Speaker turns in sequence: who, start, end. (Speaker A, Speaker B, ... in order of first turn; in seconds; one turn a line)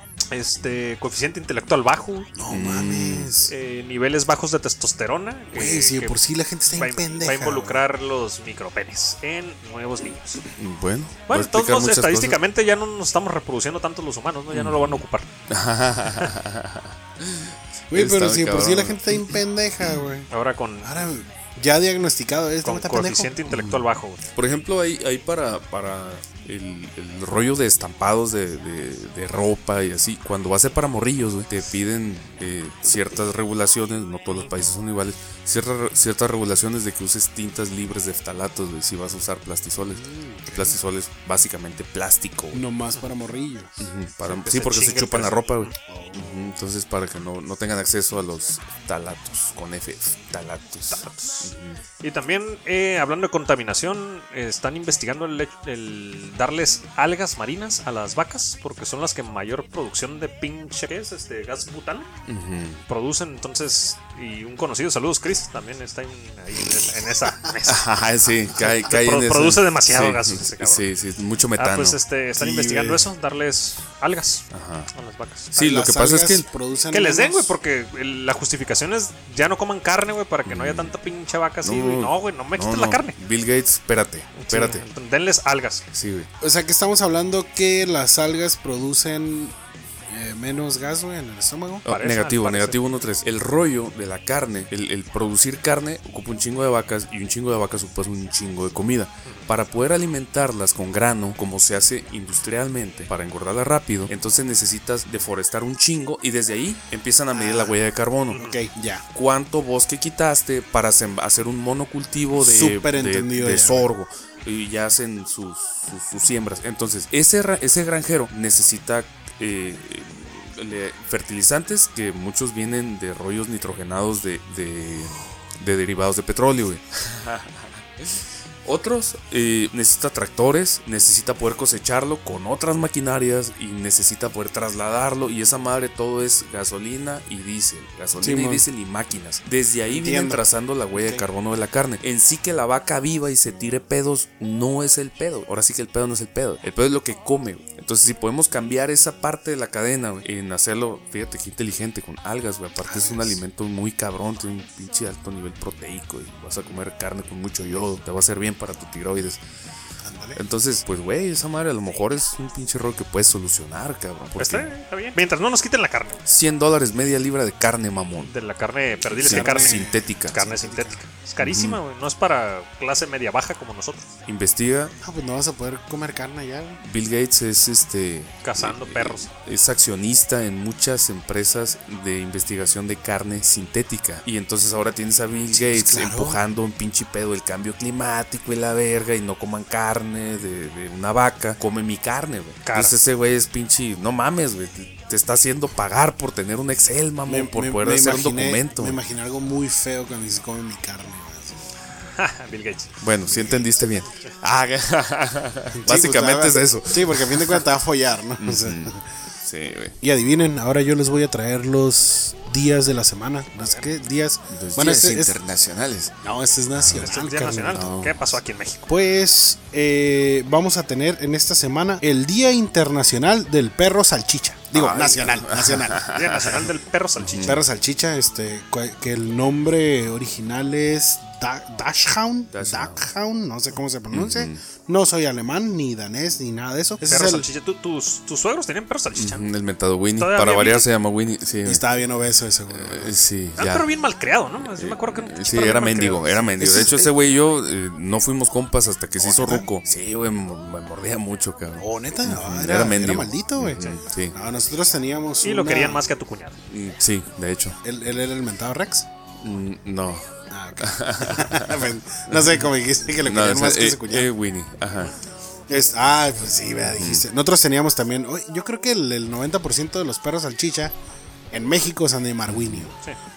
Speaker A: 0.3-2.3
Speaker B: 2.3-3.5
Speaker C: 2.5-3.3
Speaker A: 3.5-6.2
Speaker B: 5.5-7.8
Speaker A: 6.7-10.4
Speaker C: 10.6-12.4
Speaker A: 11.3-15.3
Speaker C: 14.5-20.0
Speaker B: 17.9-20.3
Speaker A: 20.3-21.0
Speaker B: 20.8-23.4
Speaker A: 22.6-24.2
Speaker C: 23.5-42.6
Speaker A: 34.3-34.6
Speaker B: 39.9-40.8
Speaker B: 42.5-43.9
Speaker C: 43.8-51.8
Speaker A: 44.3-45.7
Speaker B: 45.9-46.4
Speaker A: 50.9-62.1
Speaker C: 62.3-62.8
Speaker A: 62.9-67.8
Speaker C: 67.7-72.0
Speaker A: 68.6-70.8
Speaker A: 71.6-75.5
Speaker B: 72.3-73.1
Speaker C: 74.5-74.9
Speaker C: 75.5-76.5
Speaker B: 75.5-77.6
Speaker A: 76.9-83.2
Speaker C: 80.5-80.9
Speaker C: 81.6-84.8
Speaker A: 84.3-85.8
Speaker C: 85.9-86.3
Speaker B: 86.4-89.6
Speaker B: 90.1-91.8
Speaker C: 91.8-108.4
Speaker A: 91.9-92.8
Speaker B: 107.3-107.8
Speaker A: 108.3-108.6
Speaker B: 108.3-109.0
Speaker C: 109.1-159.4
Speaker B: 112.3-113.9
Speaker B: 138.2-138.7
Speaker B: 139.9-141.2
Speaker B: 152.8-153.4
Speaker B: 160.0-160.4
Speaker C: 160.3-164.7
Speaker A: 164.4-166.2
Speaker C: 166.3-168.3
Speaker A: 168.2-174.1
Speaker C: 169.2-170.4
Speaker B: 169.2-171.0
Speaker C: 171.4-171.8
Speaker C: 174.3-174.9
Speaker B: 175.0-176.8
Speaker C: 176.8-199.0
Speaker A: 178.4-179.3
Speaker B: 185.5-186.4
Speaker A: 192.7-193.0
Speaker B: 197.2-201.7
Speaker A: 202.1-202.9
Speaker C: 203.0-207.6
Speaker B: 203.3-203.7
Speaker B: 205.7-209.0
Speaker C: 208.4-209.9
Speaker B: 210.0-215.3
Speaker C: 214.5-216.1
Speaker B: 216.2-217.9
Speaker C: 216.8-218.3
Speaker A: 217.0-218.9
Speaker B: 218.9-226.1
Speaker C: 224.7-226.7
Speaker A: 226.1-227.6
Speaker C: 227.2-227.6
Speaker B: 227.4-237.5
Speaker C: 232.5-233.1
Speaker C: 234.1-234.6
Speaker A: 237.0-239.5
Speaker C: 239.1-241.8
Speaker A: 240.2-240.9
Speaker B: 241.6-243.2
Speaker C: 242.7-243.9
Speaker A: 243.6-247.0
Speaker C: 244.6-254.4
Speaker B: 246.6-247.1
Speaker B: 249.2-249.7
Speaker B: 251.8-256.0
Speaker A: 255.4-256.6
Speaker C: 256.7-257.8
Speaker B: 257.8-259.1
Speaker C: 259.4-260.2
Speaker B: 260.5-264.3
Speaker C: 260.8-262.7
Speaker C: 263.2-265.1
Speaker B: 265.7-270.9
Speaker C: 266.9-267.2
Speaker B: 271.5-272.9
Speaker C: 272.5-272.9